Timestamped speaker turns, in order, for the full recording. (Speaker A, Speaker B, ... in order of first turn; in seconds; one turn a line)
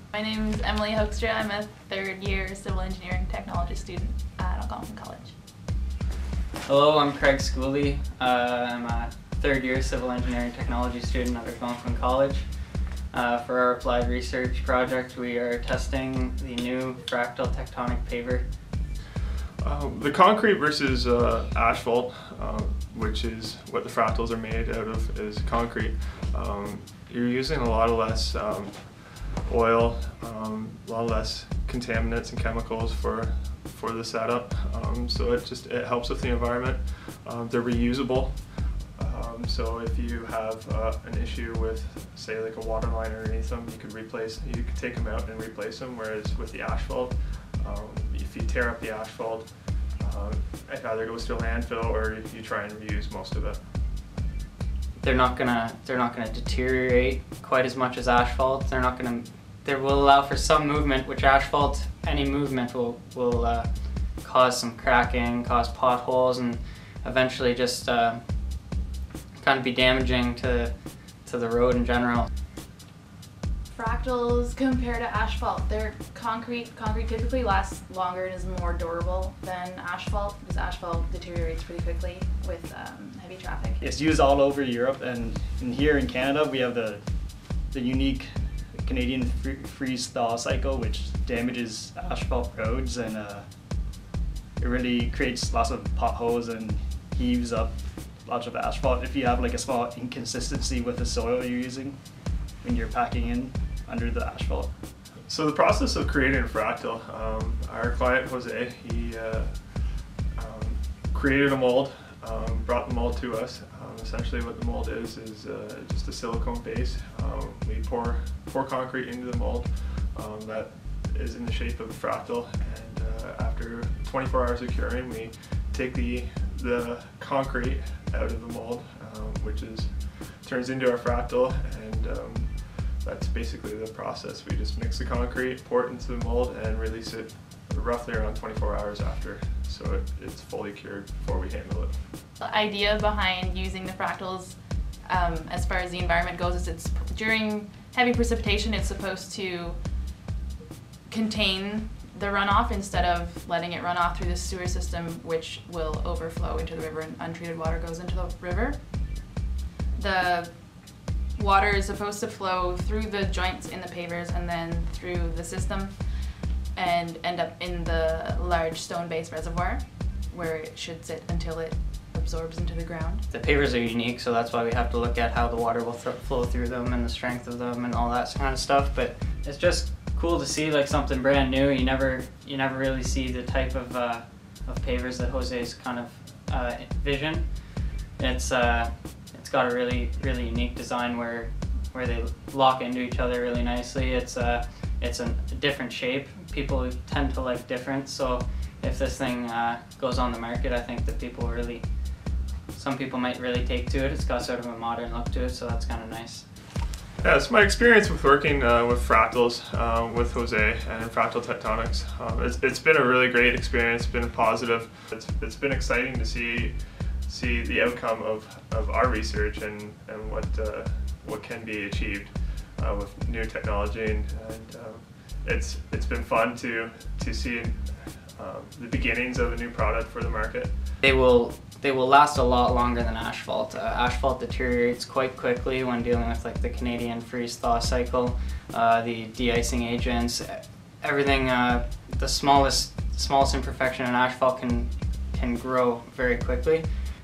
Speaker A: 0.1-5.3
Speaker B: 6.7-12.4
Speaker B: 13.1-18.4
Speaker C: 19.6-53.6
Speaker B: 55.0-68.2
Speaker B: 69.4-72.3
Speaker A: 73.7-83.8
Speaker D: 83.8-87.0
Speaker D: 87.7-93.5
Speaker D: 94.6-102.0
Speaker D: 102.6-104.7
Speaker C: 105.3-142.0
Speaker A: 142.4-149.8
Speaker A: 151.1-159.3
Speaker A: 159.9-173.2
Speaker B: 173.3-187.6
Speaker B: 188.2-201.9
Speaker B: 202.7-206.5
Speaker C: 207.2-230.7
Speaker B: 231.0-246.9